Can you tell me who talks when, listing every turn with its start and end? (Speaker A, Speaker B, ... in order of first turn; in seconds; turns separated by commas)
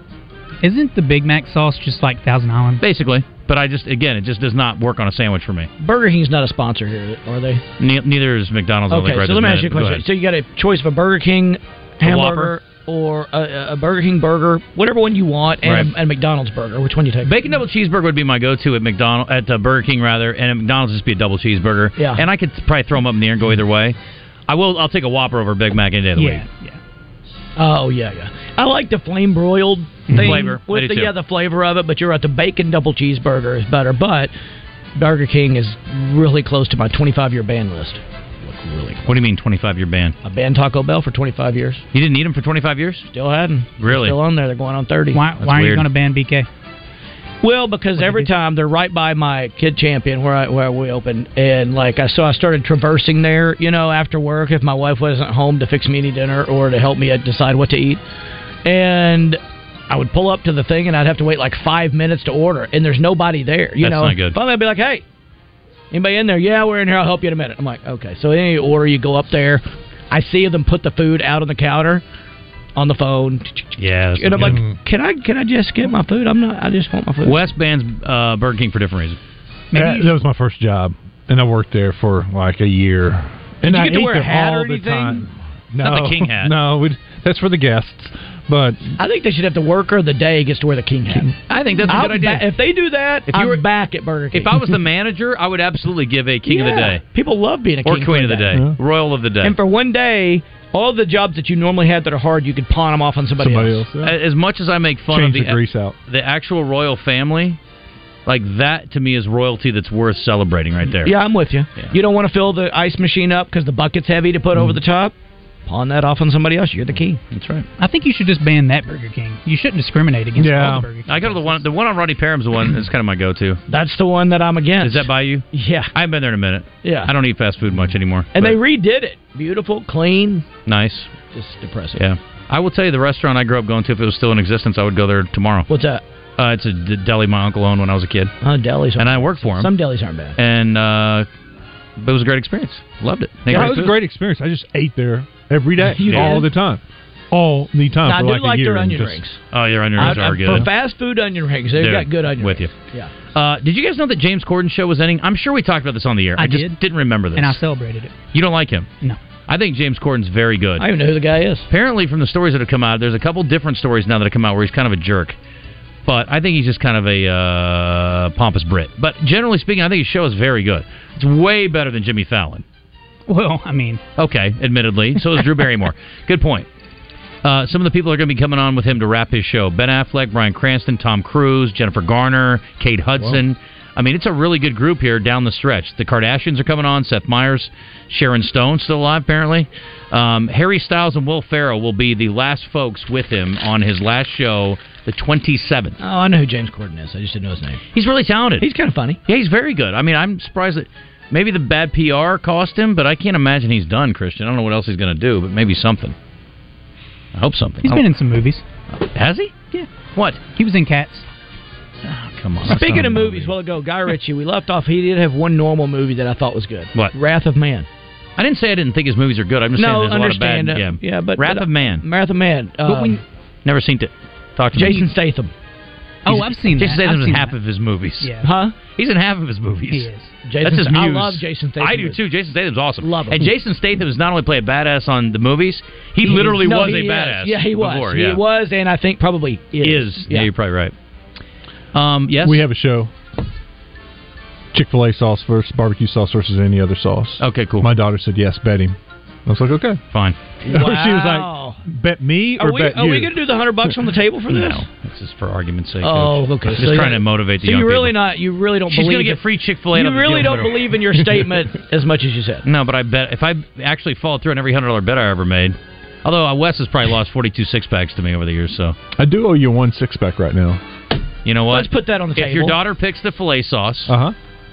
Speaker A: 0.6-2.8, Speaker B: 2.8-5.7, Speaker C: 5.8-7.6, Speaker B: 7.8-10.0, Speaker C: 8.9-17.4, Speaker B: 12.0-12.6, Speaker B: 15.6-15.9, Speaker B: 17.2-23.9, Speaker C: 22.0-22.2, Speaker B: 24.5-26.5, Speaker A: 26.2-26.8, Speaker C: 27.6-34.3, Speaker A: 30.1-30.5, Speaker B: 30.1-31.1, Speaker C: 35.0-39.1, Speaker B: 39.1-40.1, Speaker C: 40.2-41.8, Speaker B: 41.9-43.1, Speaker C: 43.1-45.2, Speaker B: 43.8-44.1, Speaker A: 45.1-46.5, Speaker B: 45.3-45.9, Speaker C: 47.4-58.0, Speaker A: 48.0-48.3, Speaker C: 58.6-65.0, Speaker B: 63.8-64.3, Speaker C: 65.9-72.0, Speaker C: 72.8-77.4, Speaker B: 73.8-74.6, Speaker D: 74.4-74.7, Speaker B: 77.2-79.2, Speaker D: 79.7-88.9, Speaker A: 79.7-80.1, Speaker C: 83.6-85.3, Speaker B: 85.8-86.5, Speaker C: 89.0-91.3, Speaker B: 91.5-92.5, Speaker C: 91.9-94.5, Speaker B: 93.3-93.6, Speaker B: 94.3-97.0, Speaker C: 96.5-98.5, Speaker B: 97.8-99.5, Speaker D: 98.5-98.8, Speaker C: 99.4-103.8, Speaker D: 103.4-104.2, Speaker B: 104.0-107.6, Speaker D: 105.1-105.9, Speaker B: 108.2-111.1, Speaker C: 111.0-115.1, Speaker C: 115.7-117.2, Speaker B: 117.3-117.7, Speaker A: 117.8-121.6, Speaker D: 120.3-120.9, Speaker B: 121.0-123.6, Speaker C: 123.7-125.9, Speaker B: 124.8-128.6, Speaker C: 126.8-127.1, Speaker C: 128.3-130.4, Speaker B: 130.7-131.1, Speaker C: 131.3-132.0, Speaker B: 131.9-135.7, Speaker C: 135.7-136.0, Speaker B: 136.4-138.3, Speaker C: 138.4-140.4, Speaker B: 139.0-139.7, Speaker B: 140.4-141.3, Speaker B: 142.0-144.0, Speaker D: 143.5-149.2, Speaker C: 143.5-143.8, Speaker C: 145.8-146.5, Speaker B: 146.1-146.4, Speaker C: 148.0-149.4, Speaker B: 149.5-150.7, Speaker C: 150.0-153.1, Speaker D: 150.0-150.7, Speaker B: 151.8-152.7, Speaker B: 153.3-157.6, Speaker A: 156.4-156.8, Speaker A: 157.3-158.1, Speaker B: 158.3-158.9, Speaker B: 159.5-160.9, Speaker C: 160.8-161.7, Speaker B: 161.7-165.3, Speaker B: 166.0-172.6, Speaker A: 173.3-174.0, Speaker B: 174.2-176.7, Speaker B: 177.4-196.0, Speaker C: 196.0-197.8, Speaker B: 197.9-198.7, Speaker C: 198.6-199.2, Speaker B: 199.2-206.1, Speaker B: 207.3-208.1, Speaker A: 207.8-208.6, Speaker B: 208.9-209.6, Speaker B: 210.1-210.4, Speaker A: 210.5-211.2, Speaker B: 212.0-213.5, Speaker C: 212.7-217.8, Speaker B: 218.4-222.0, Speaker C: 219.8-223.2, Speaker B: 223.6-225.1, Speaker C: 224.7-225.5, Speaker A: 226.2-227.5, Speaker B: 226.2-238.4, Speaker C: 228.4-228.7, Speaker A: 229.9-230.3, Speaker C: 230.4-232.2, Speaker C: 233.0-233.5, Speaker C: 236.2-240.5, Speaker B: 239.8-240.9, Speaker B: 241.9-242.6, Speaker D: 242.4-243.1, Speaker D: 244.7-250.0, Speaker B: 247.4-247.9, Speaker B: 250.1-250.4, Speaker C: 250.6-251.8, Speaker D: 250.7-253.3, Speaker C: 252.6-254.8, Speaker B: 254.5-258.2, Speaker C: 256.0-259.4, Speaker B: 258.9-260.9, Speaker C: 259.9-262.6, Speaker B: 262.6-269.0, Speaker D: 269.2-270.8, Speaker B: 271.4-274.1, Speaker C: 271.7-272.8, Speaker D: 274.1-274.3